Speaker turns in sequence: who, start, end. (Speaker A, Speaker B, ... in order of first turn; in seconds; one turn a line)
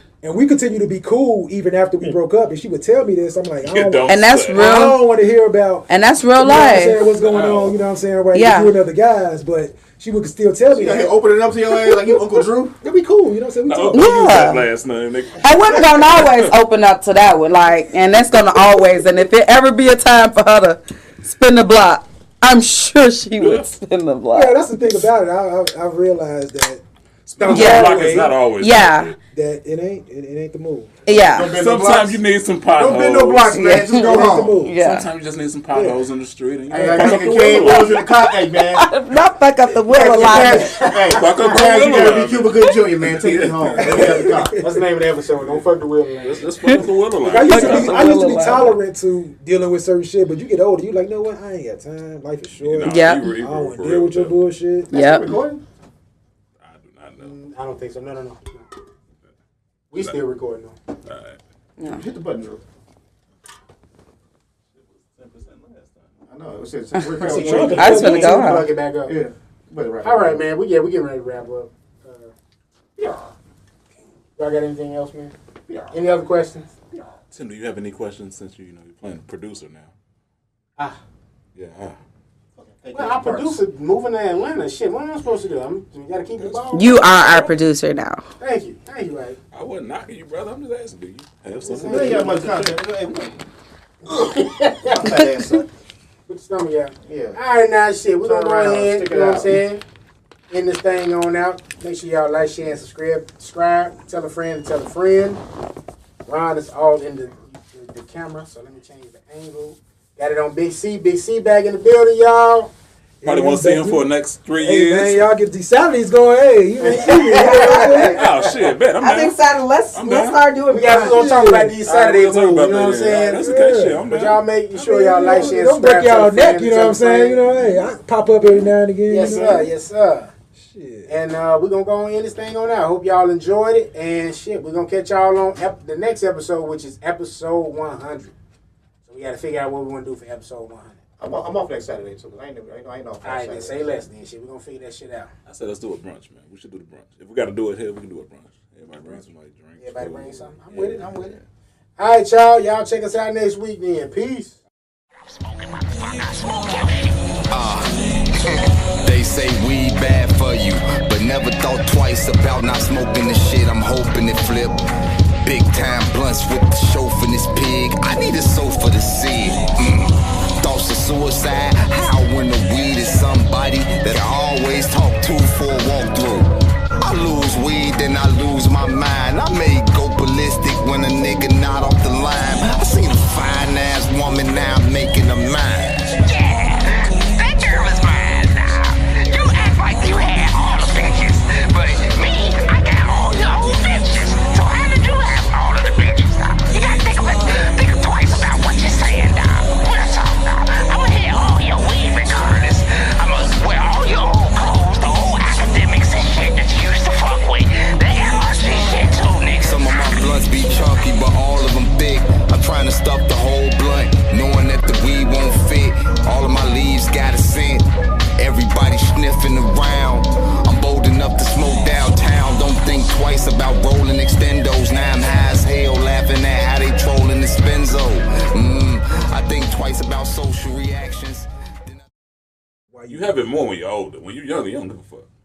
Speaker A: 0.2-11.1
Speaker B: 3.6-4.6
Speaker C: 4.0-5.0
Speaker C: 5.9-7.0
Speaker B: 7.1-7.7
Speaker D: 7.3-7.7
Speaker C: 8.3-8.7
Speaker D: 10.7-12.8
Speaker A: 12.8-14.1
Speaker B: 13.7-16.5
Speaker C: 13.9-14.7
Speaker C: 15.4-24.6
Speaker B: 23.4-23.7
Speaker A: 24.3-26.8
Speaker B: 27.2-29.1
Speaker A: 27.4-28.4
Speaker C: 27.5-29.1
Speaker A: 29.3-31.1
Speaker C: 31.1-31.6
Speaker D: 31.1-32.2
Speaker B: 31.4-33.6
Speaker D: 32.7-34.6
Speaker C: 33.5-35.1
Speaker A: 33.9-34.8
Speaker B: 34.8-38.1
Speaker A: 35.7-36.0
Speaker D: 36.7-38.9
Speaker C: 37.7-38.0
Speaker C: 38.7-40.9
Speaker D: 39.9-44.6
Speaker E: 39.9-41.2
Speaker B: 41.1-44.4
Speaker A: 43.8-44.7
Speaker E: 44.6-46.5
Speaker B: 45.4-45.6
Speaker B: 46.2-48.7
Speaker A: 47.2-54.9
Speaker C: 47.3-48.8
Speaker B: 52.5-54.4
Speaker C: 52.8-53.3
Speaker D: 54.9-55.6
Speaker C: 54.9-55.4
Speaker B: 56.6-57.3
Speaker E: 57.2-58.6
Speaker E: 59.9-60.7
Speaker B: 61.0-61.4
Speaker C: 61.8-62.0
Speaker D: 61.8-62.6
Speaker B: 64.8-66.1
Speaker D: 66.3-68.2
Speaker E: 67.2-69.1
Speaker A: 67.3-68.4
Speaker B: 67.5-68.1
Speaker C: 67.7-68.7
Speaker D: 69.0-70.4
Speaker E: 70.0-72.3
Speaker D: 73.0-73.3
Speaker E: 74.4-75.3
Speaker D: 75.7-75.9
Speaker E: 75.9-76.7
Speaker B: 77.3-79.9
Speaker B: 81.5-82.0
Speaker D: 82.6-83.6
Speaker E: 82.9-87.1
Speaker B: 86.4-87.5
Speaker C: 86.7-88.2
Speaker E: 88.4-89.4
Speaker B: 89.5-92.8
Speaker E: 91.6-92.3
Speaker D: 91.7-93.3
Speaker E: 94.1-95.1
Speaker D: 94.8-95.7
Speaker E: 96.3-99.8
Speaker D: 97.0-97.4
Speaker D: 98.2-99.6
Speaker E: 100.5-105.4
Speaker E: 106.2-112.7
Speaker A: 113.2-114.1
Speaker B: 113.2-115.3
Speaker A: 114.6-118.2
Speaker E: 116.8-118.5
Speaker C: 117.0-118.1
Speaker B: 118.1-119.4
Speaker C: 118.9-121.2
Speaker B: 119.9-120.4
Speaker E: 120.7-123.5
Speaker A: 120.9-121.8
Speaker B: 121.8-124.4
Speaker A: 123.2-124.0
Speaker E: 124.1-127.4
Speaker A: 124.7-129.7
Speaker E: 129.1-130.3
Speaker A: 130.6-131.2
Speaker E: 131.1-138.3
Speaker E: 139.1-141.0
Speaker D: 141.2-143.8
Speaker E: 143.2-145.3
Speaker B: 145.4-151.4
Speaker E: 149.8-151.3
Speaker E: 152.0-154.6
Speaker F: 155.5-157.4
Speaker G: 157.5-164.8
Speaker G: 165.4-186.2
Speaker F: 186.2-210.1
Speaker G: 209.6-232.0
Speaker A: 232.9-233.3
Speaker B: 233.1-235.3